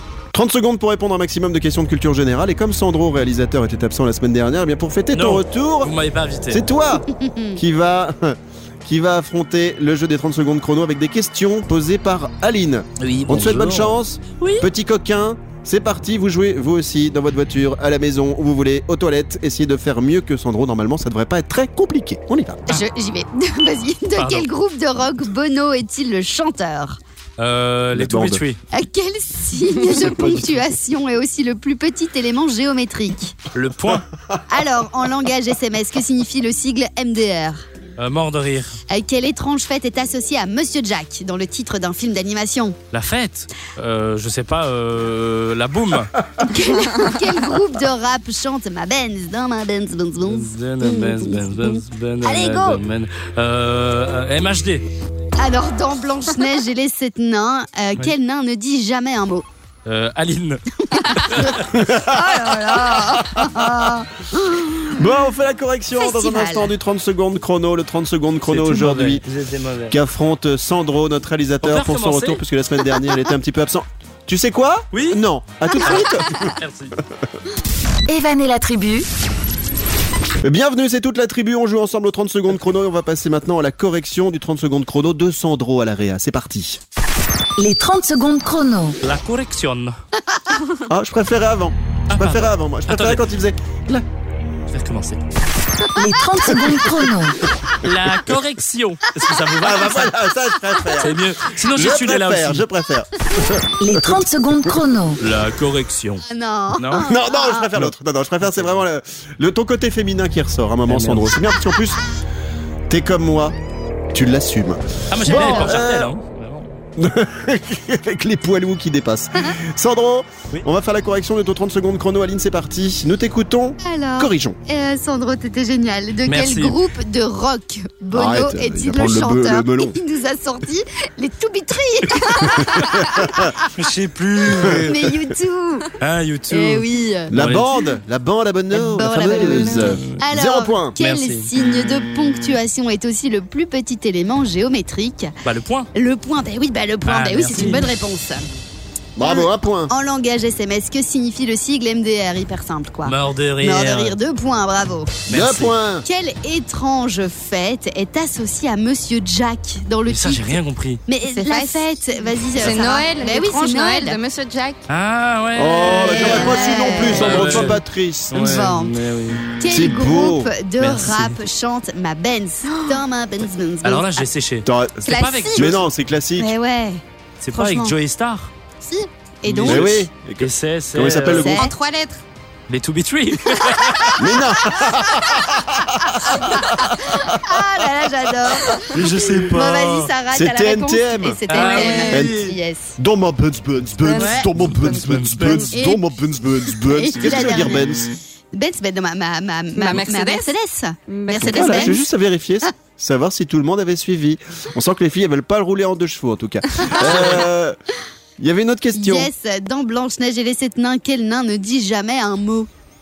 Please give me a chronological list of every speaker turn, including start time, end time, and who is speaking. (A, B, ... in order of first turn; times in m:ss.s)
0:00.3-0:05.9 A
0:05.1-0:06.7 B
0:06.5-0:22.6 A
0:07.1-0:07.6 C
0:13.0-0:14.6 B
0:22.7-0:27.0 C
0:24.2-0:24.5 B
0:27.4-0:28.6 B
0:27.9-0:28.4 A
0:28.7-0:33.4 C
0:30.0-0:30.4 A
0:33.5-0:34.0 B
0:34.5-0:37.6 C
0:38.0-0:38.8 B
0:38.9-0:42.8 C
0:42.9-0:46.2 B
0:46.4-0:52.8 C
0:46.8-0:47.2 D
0:50.3-0:54.8 B
0:55.4-0:59.4 C
0:59.8-1:01.7 B
1:00.8-1:04.9 C
1:01.7-1:03.9 A
1:04.8-1:09.2 A
1:06.0-1:06.7 C
1:08.4-1:10.0 B
1:09.9-1:16.5 A
1:11.6-1:12.4 B
1:14.9-1:15.2 B
1:15.8-1:17.0 B
1:18.1-1:19.1 E
1:20.4-1:26.8 A
1:27.6-1:29.0 E
1:29.0-1:29.9 B
1:30.8-1:34.0 A
1:32.1-1:33.2 B
1:34.7-1:35.2 B
1:35.9-1:37.4 E
1:37.8-1:40.2 B
1:39.6-1:44.2 A
1:41.0-1:42.6 B
1:43.8-1:45.2 E
1:45.2-1:46.2 B
1:46.2-1:47.7 C
1:46.7-1:47.1 B
1:47.1-1:52.0 A
1:48.4-1:48.8 B
1:50.9-1:51.4 B
1:52.9-1:53.6 A
1:54.1-1:56.1 A
1:55.1-1:56.7 B
1:55.2-1:55.8 C
1:57.0-2:04.6 A
2:03.8-2:13.7 C
2:06.2-2:06.8 B
2:08.1-2:10.0 A
2:13.8-2:15.1 B
2:14.6-2:15.9 C
2:16.0-2:17.7 B
2:16.5-2:17.3 C
2:17.3-2:21.0 A
2:18.7-2:25.3 C
2:19.3-2:20.2 B
2:21.0-2:21.5 B
2:25.4-2:25.9 B
2:25.9-2:28.4 C
2:27.0-2:27.9 B
2:29.2-2:29.9 A
2:29.2-2:35.1 C
2:33.0-2:34.2 B
2:35.3-2:35.8 B
2:35.3-2:36.0 A
2:36.0-2:44.2 C
2:40.1-2:41.0 B
2:41.2-2:41.8 D
2:42.5-2:44.8 D
2:44.9-2:47.8 B
2:45.6-2:48.7 A
2:45.9-2:47.8 C
2:48.3-2:49.4 B
2:48.3-2:48.9 C
2:49.6-2:54.2 C
2:49.7-2:50.5 A
2:50.8-2:51.4 B
2:52.6-2:53.0 D
2:53.8-2:55.9 B
2:54.6-2:56.5 A
2:55.1-2:55.6 D
2:56.4-2:57.0 C
2:57.4-2:58.5 B
2:57.5-2:57.9 C
2:58.8-3:00.0 C
2:59.4-3:01.5 B
2:59.6-3:01.7 A
3:01.2-3:01.7 C
3:01.4-3:02.2 D
3:02.7-3:04.2 B
3:04.2-3:07.6 A
3:06.2-3:12.9 C
3:08.4-3:09.4 A
3:08.8-3:10.1 B
3:10.3-3:11.4 A
3:11.5-3:12.6 B
3:11.5-3:12.2 D
3:12.1-3:12.4 A
3:13.0-3:18.1 A
3:14.0-3:15.2 D
3:14.1-3:15.7 B
3:15.7-3:16.0 C
3:16.8-3:17.9 C
3:18.5-3:22.0 C
3:19.7-3:20.5 D
3:21.1-3:22.0 D
3:21.4-3:27.8 A
3:27.0-3:27.4 B
3:28.4-3:29.3 A
3:28.9-3:32.7 C